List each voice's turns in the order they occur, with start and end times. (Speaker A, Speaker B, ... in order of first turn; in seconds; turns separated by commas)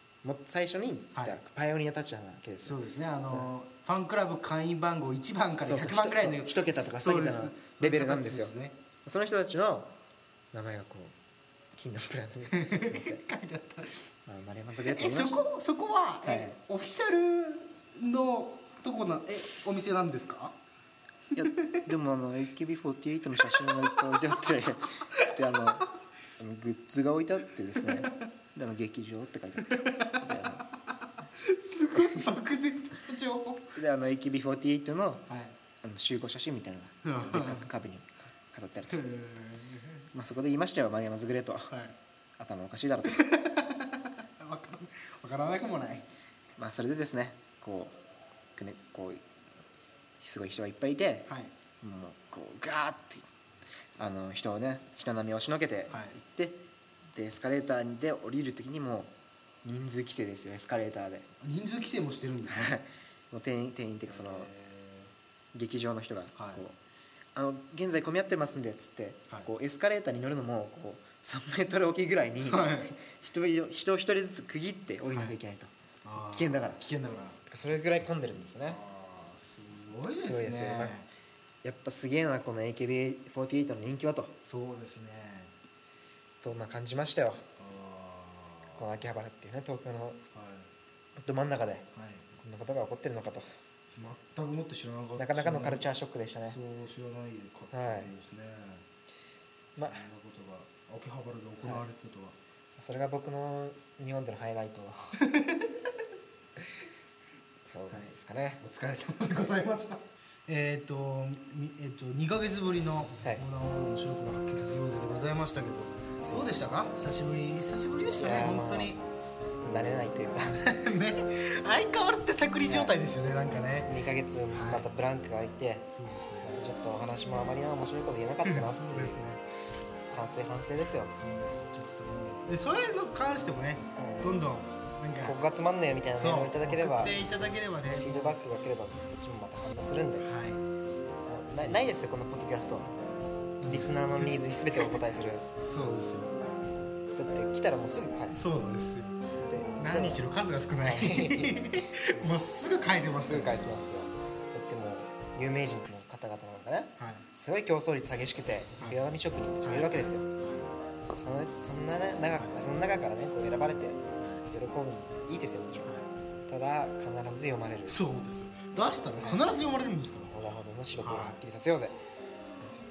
Speaker A: 0.2-3.5, Speaker B: 2.6-8.7, Speaker A: 5.6-8.5, Speaker A: 9.0-9.9, Speaker A: 10.5-11.1, Speaker A: 11.8-13.2, Speaker B: 12.5-14.1, Speaker A: 14.3-15.4, Speaker B: 14.8-20.6, Speaker A: 16.2-16.6, Speaker A: 21.3-30.6, Speaker B: 23.4-24.0, Speaker B: 25.1-25.6, Speaker B: 27.7-28.1, Speaker B: 29.6-33.8, Speaker A: 32.0-32.2, Speaker A: 33.8-35.3, Speaker B: 35.3-35.5, Speaker A: 35.8-39.0, Speaker B: 37.0-37.7, Speaker B: 38.9-40.1, Speaker A: 40.1-41.7, Speaker B: 41.7-41.9, Speaker A: 42.4-43.2, Speaker B: 43.0-46.1, Speaker A: 46.6-47.9, Speaker A: 48.6-49.2, Speaker A: 50.2-51.3, Speaker B: 51.3-51.5, Speaker A: 51.8-53.2, Speaker A: 54.0-56.6, Speaker B: 55.9-56.2, Speaker A: 57.1-59.1, Speaker A: 59.6-61.3, Speaker B: 61.4-62.8, Speaker A: 62.5-64.5, Speaker B: 64.1-65.1, Speaker A: 65.5-66.8, Speaker B: 66.3-66.6, Speaker A: 67.3-76.8, Speaker B: 72.4-72.9, Speaker B: 75.1-75.3, Speaker B: 76.0-77.4, Speaker A: 77.5-78.8, Speaker B: 78.7-81.1, Speaker A: 80.2-81.0, Speaker A: 81.6-84.4, Speaker B: 84.4-85.5, Speaker A: 86.4-87.5, Speaker B: 87.6-88.8, Speaker A: 88.7-90.2, Speaker B: 90.3-90.7, Speaker A: 91.2-93.6, Speaker B: 91.9-92.2, Speaker B: 93.9-95.9, Speaker A: 95.2-96.6, Speaker B: 96.5-98.8, Speaker A: 97.7-98.1, Speaker A: 99.8-100.1, Speaker B: 99.9-102.3, Speaker A: 102.8-105.2, Speaker B: 105.2-105.9, Speaker A: 107.7-108.6, Speaker B: 107.9-119.0, Speaker A: 118.2-118.9, Speaker A: 119.6-120.7, Speaker B: 120.5-123.9, Speaker A: 122.7-122.9, Speaker A: 123.8-125.9, Speaker B: 124.5-124.9, Speaker B: 125.9-126.6, Speaker A: 126.4-129.3, Speaker B: 128.4-129.4, Speaker A: 130.1-131.1, Speaker B: 131.1-135.4, Speaker A: 134.0-134.4, Speaker A: 135.2-137.2, Speaker B: 136.1-138.4, Speaker A: 137.8-140.3, Speaker B: 140.2-140.6, Speaker A: 141.2-142.9, Speaker B: 143.6-144.9, Speaker A: 143.7-145.5, Speaker B: 145.6-146.4, Speaker A: 147.2-148.4, Speaker B: 148.3-149.2, Speaker A: 149.4-150.2, Speaker B: 149.8-153.8, Speaker A: 150.8-151.9, Speaker A: 153.2-160.3, Speaker B: 157.0-157.2, Speaker B: 159.6-160.7, Speaker A: 161.1-165.9, Speaker B: 164.2-164.5, Speaker A: 166.5-168.1, Speaker B: 167.9-170.3, Speaker A: 169.1-169.5, Speaker A: 170.3-172.0, Speaker B: 171.0-171.4